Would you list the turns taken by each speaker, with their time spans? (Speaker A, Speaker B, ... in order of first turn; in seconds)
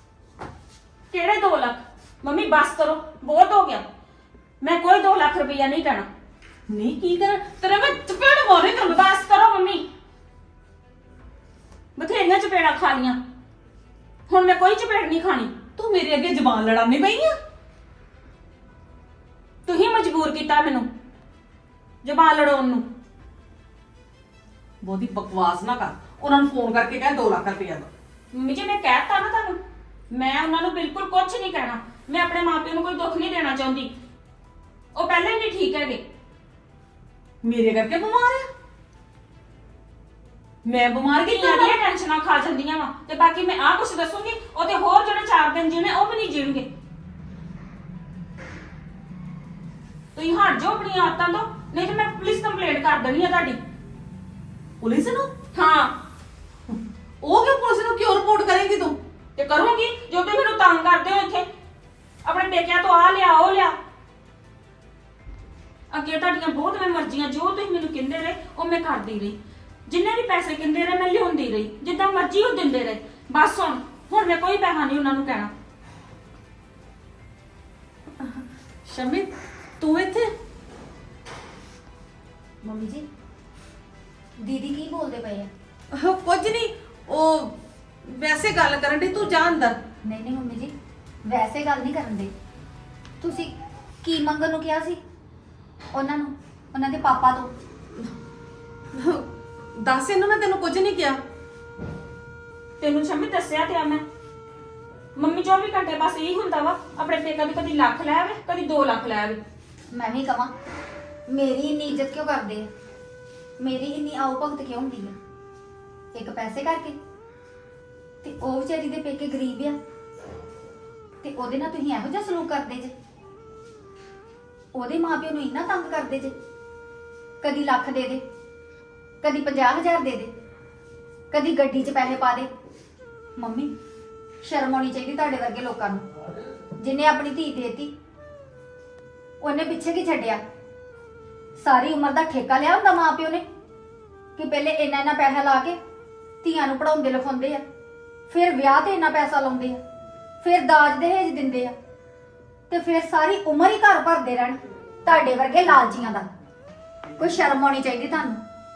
Speaker A: 1.1-3.8, 4.6-6.1, 8.8-9.9, 12.0-13.2, 14.3-15.5, 19.6-20.9, 22.0-22.9, 28.3-29.6, 30.1-33.9, 34.9-36.0, 41.2-46.7, 50.1-53.6, 55.5-56.0, 59.4-61.5, 62.2-63.8, 65.9-75.5, 102.8-104.0, 105.2-109.4
Speaker B: 6.7-9.1, 15.8-17.4, 24.8-27.9, 37.4-38.5, 40.6-41.8, 54.8-55.3, 57.2-59.0, 78.2-79.3, 79.8-80.3, 85.9-87.5, 88.0-89.8, 99.0-99.2, 99.8-101.2
Speaker C: 82.6-83.1, 84.4-85.5, 90.0-90.7, 91.2-92.3, 93.2-95.0, 95.9-97.5, 109.9-110.5, 111.3-112.7, 113.6-115.2, 116.1-117.0, 118.2-119.8, 121.2-122.9, 124.7-126.3, 127.4-128.2, 129.2-130.3, 131.3-132.5, 133.4-133.7, 134.4-136.1, 136.8-137.9, 139.4-140.4, 141.6-143.4, 144.4-145.8, 146.4-147.6, 148.3-149.8, 150.4-151.7, 152.7-156.3, 157.2-158.4